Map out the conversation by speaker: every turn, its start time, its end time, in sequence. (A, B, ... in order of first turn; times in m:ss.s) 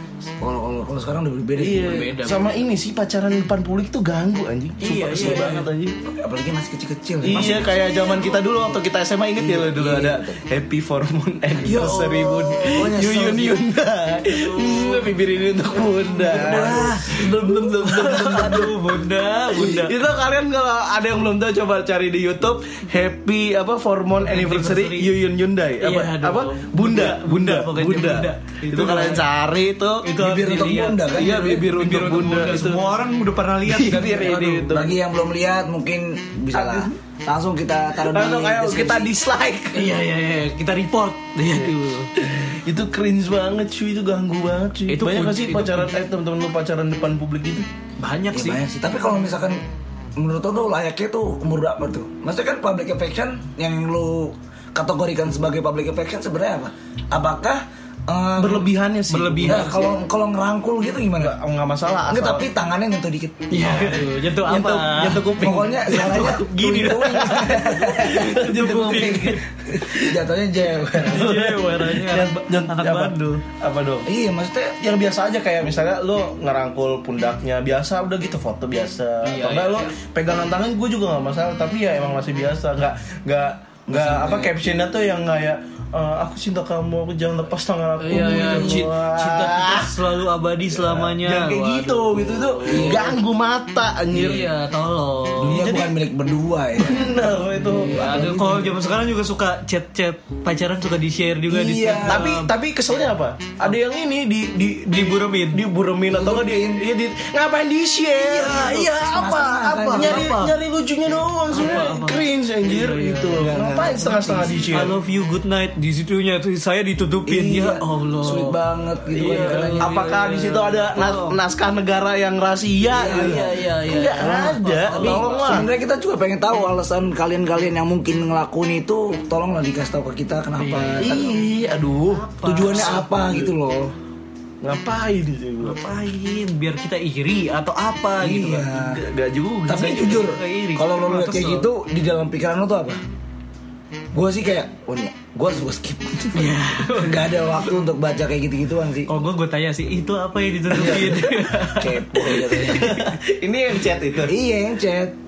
0:00.4-0:02.1 A
0:01.6-0:05.9 B
0:01.7-0:02.5 C
0:04.8-0:05.7 C
0:05.1-0:08.5 A
0:07.2-0:18.9 B
0:07.3-0:08.4 C
0:09.4-0:10.4 A
0:11.6-0:13.1 C
0:11.8-0:12.1 A
0:12.7-0:13.6 A
0:14.2-0:15.1 C
0:16.2-0:20.0 C
0:16.3-0:17.0 A
0:19.5-0:32.8 B
0:24.2-0:25.1 C
0:25.8-0:29.2 C
0:30.0-0:34.7 C
0:30.1-0:31.7 A
0:33.6-0:35.0 B
0:34.7-0:39.1 A
0:36.5-0:36.9 B
0:38.0-0:40.0 B
0:39.7-0:42.1 C
0:42.2-0:47.7 B
0:44.9-0:45.9 C
0:48.0-0:48.6 C
0:48.3-0:49.6 A
0:50.2-0:58.7 A
0:58.4-0:59.8 B
0:59.1-0:59.9 C
0:59.4-1:01.4 A
1:01.2-1:02.4 B
1:02.1-1:03.7 A
1:03.5-1:09.4 C
1:04.4-1:06.4 B
1:05.4-1:09.2 A
1:07.0-1:10.2 B
1:09.7-1:11.3 A
1:11.0-1:13.4 C
1:11.0-1:14.1 B
1:14.0-1:14.8 A
1:14.8-1:30.0 B
1:19.2-1:19.9 C
1:23.9-1:24.5 A
1:28.0-1:33.1 C
1:28.1-1:28.8 A
1:30.7-1:34.5 B
1:32.6-1:33.2 A
1:34.1-1:35.7 C
1:35.4-1:38.9 A
1:35.4-1:36.0 B
1:36.8-1:38.0 B
1:37.6-1:42.5 C
1:41.5-1:42.3 A
1:42.0-1:54.9 B
1:44.9-1:45.6 C
1:46.1-1:46.8 A
1:48.2-1:50.3 A
1:48.3-1:50.6 C
1:51.5-1:53.5 C
1:53.4-1:54.8 A
1:54.7-1:58.6 C
1:57.2-2:00.1 A
1:59.1-2:01.4 C
1:59.2-2:05.7 B
2:02.8-2:11.4 A
2:03.0-2:05.6 C
2:10.6-2:11.3 C
2:11.0-2:13.5 B
2:12.0-2:13.0 C
2:12.4-2:13.9 A
2:14.6-2:15.8 B
2:15.6-2:18.7 C
2:18.2-2:19.0 A
2:18.7-2:20.2 B
2:19.7-2:23.0 A
2:19.8-2:21.7 C
2:24.1-2:29.1 A
2:26.3-2:27.6 C
2:29.1-2:33.0 C
2:30.7-2:33.0 A
2:32.3-2:34.4 B
2:34.2-2:35.1 A